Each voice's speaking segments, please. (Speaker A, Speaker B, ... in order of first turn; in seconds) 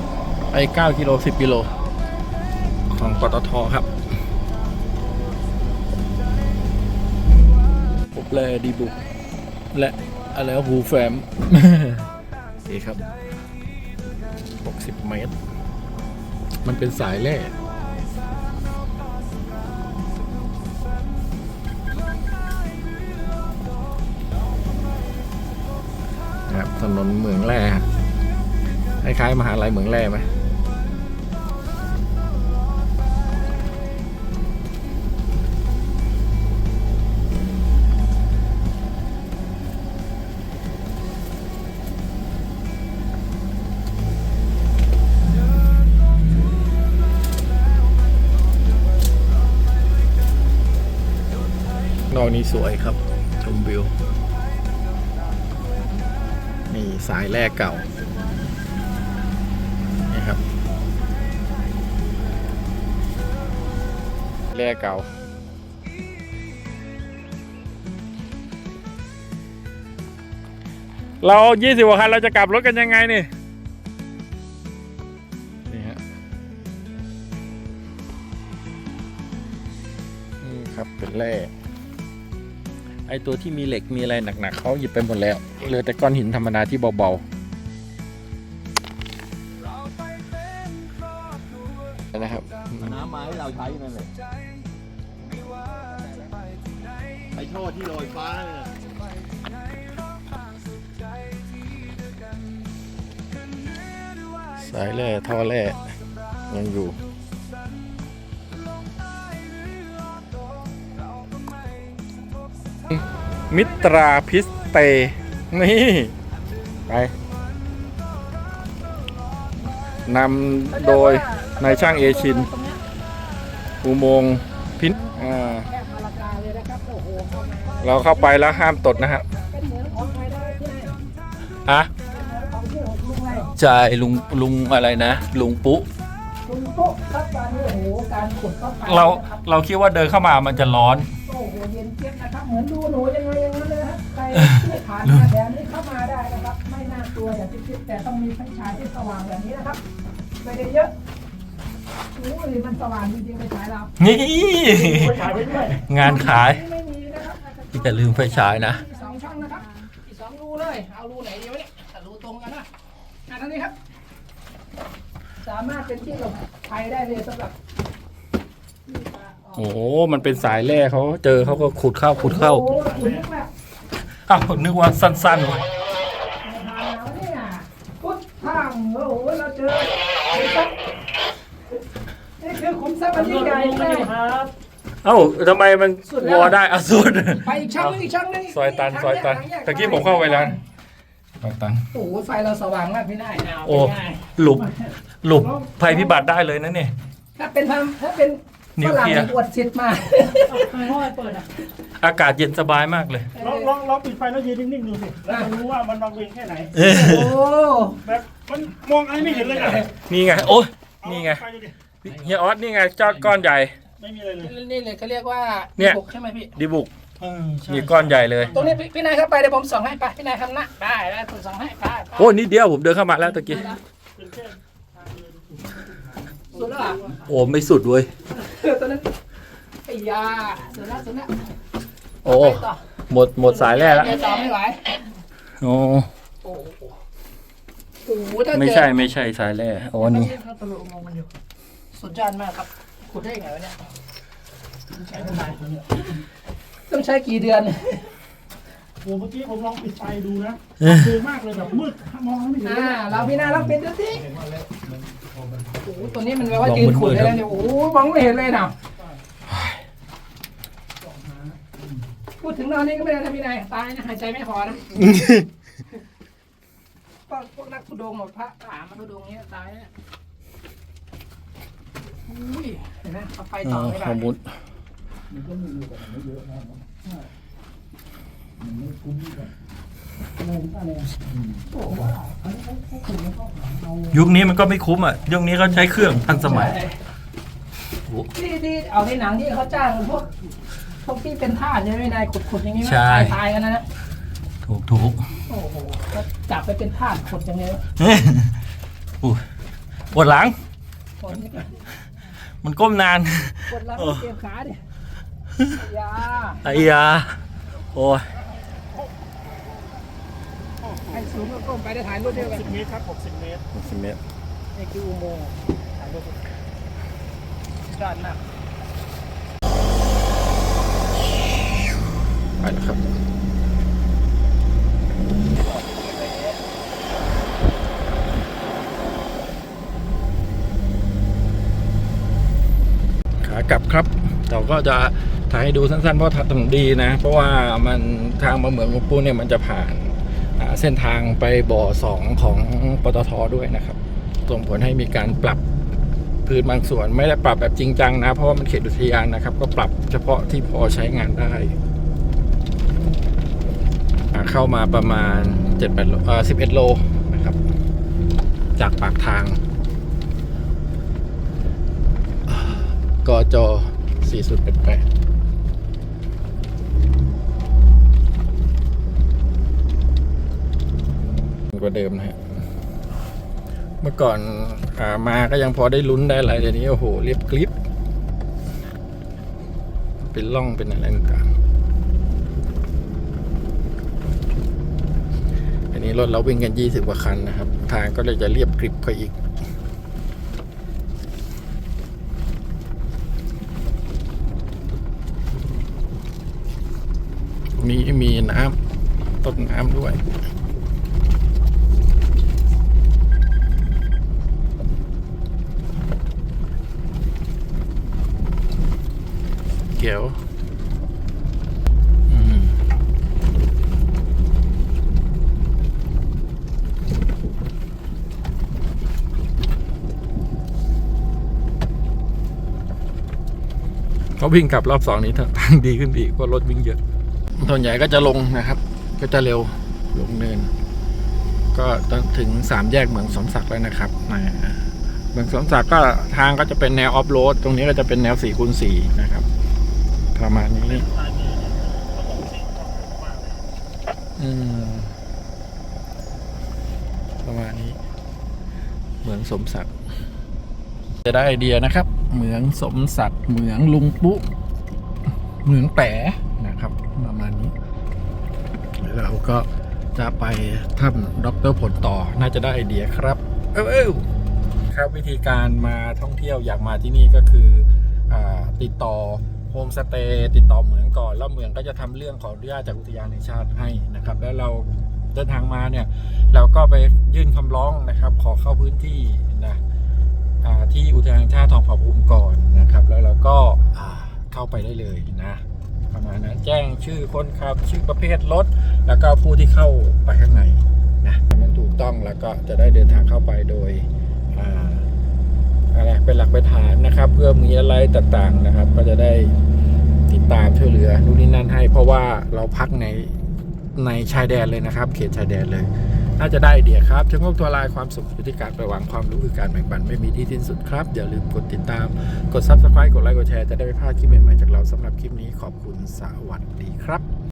Speaker A: 0.5-1.8, 2.9-3.9, 8.1-9.0, 9.7-12.1, 12.6-13.0, 14.6-15.3, 16.6-17.5, 26.5-27.9, 29.0-30.3, 52.1-53.9, 56.7-57.8, 60.1-60.4, 64.5-65.1, 71.2-73.3, 75.7-76.0, 80.4-81.5, 83.1-87.2, 92.1-93.0, 104.6-105.8, 106.5-107.0, 112.9-116.1, 116.9-117.1, 120.0-122.5, 123.8-125.7, 127.8-129.2, 133.6-135.9, 138.8-141.1, 154.0-155.1, 155.9-156.6, 157.8-158.8, 169.6-172.7, 174.3-175.6, 185.0-190.5, 191.4-191.9, 193.6-194.7, 195.2-196.9, 198.8-199.3, 202.0-203.3, 206.7-207.3, 210.0-211.4, 212.0-213.8, 216.6-216.9, 217.6-218.6, 222.2-223.7, 227.2-228.1, 232.2-234.2, 235.6-236.1, 238.5-240.3, 250.8-251.1, 256.6-257.4, 265.0-265.4, 273.6-274.4, 284.1-286.8, 292.8-293.4, 294.6-295.2, 298.0-298.5, 300.1-300.5, 302.6-304.2, 306.6-307.4, 307.9-308.3, 313.7-314.2, 322.6-323.0, 333.4-345.6, 346.4-351.7, 354.3-357.6, 358.8-359.6, 362.5-365.0, 371.7-372.4, 374.0-377.7, 380.2-381.5, 385.9-389.4, 397.8-398.8, 399.4-400.2, 409.9-410.4, 412.3-412.8, 424.4-427.0, 427.6-430.7, 431.7-439.4, 440.3-441.1, 444.4-445.1, 447.4-448.0, 449.2-449.9, 451.2-454.4, 455.6-457.7, 459.0-464.2, 464.9-479.8, 480.6-495.1, 495.9-499.5, 500.3-503.3, 503.9-517.2
Speaker B: 92.8-94.1, 97.3-98.8
Speaker C: 120.7-122.8, 125.5-130.9, 132.1-133.5, 136.4-139.4, 141.2-149.8, 150.4-150.9, 152.1-153.9, 156.0-162.7, 163.3-163.7, 165.4-167.5, 168.9-169.7, 172.2-173.5, 176.4-180.7, 182.4-184.1, 186.1-186.6, 187.4-190.6, 191.9-194.2, 197.3-201.6, 203.3-203.7, 206.8-208.0, 209.3-209.9, 214.4-216.5, 218.5-222.4, 223.4-223.8, 226.5-227.1, 228.3-229.1, 229.8-231.4, 232.2-232.8, 233.4-234.9, 236.4-236.9, 238.0-238.9, 240.0-241.3, 241.9-243.8, 245.1-245.7, 246.9-248.1, 252.6-254.3, 255.8-258.7, 262.4-264.9, 267.3-269.9, 272.3-274.3, 280.4-281.1, 281.7-284.1, 286.4-286.9, 288.3-290.3, 291.0-293.8, 295.5-297.8, 301.2-301.7, 303.7-304.8, 305.8-306.9, 311.1-312.8, 314.7-316.4, 317.9-318.4, 325.7-326.5
Speaker D: 154.7-155.8, 183.2-184.5, 195.4-196.1, 200.5-201.0, 203.4-207.0, 208.0-210.5, 211.0-211.8, 214.0-214.5, 217.2-218.7, 224.2-227.3, 245.1-245.6, 249.0-253.1, 310.8-311.1, 312.2-313.6, 440.9-443.6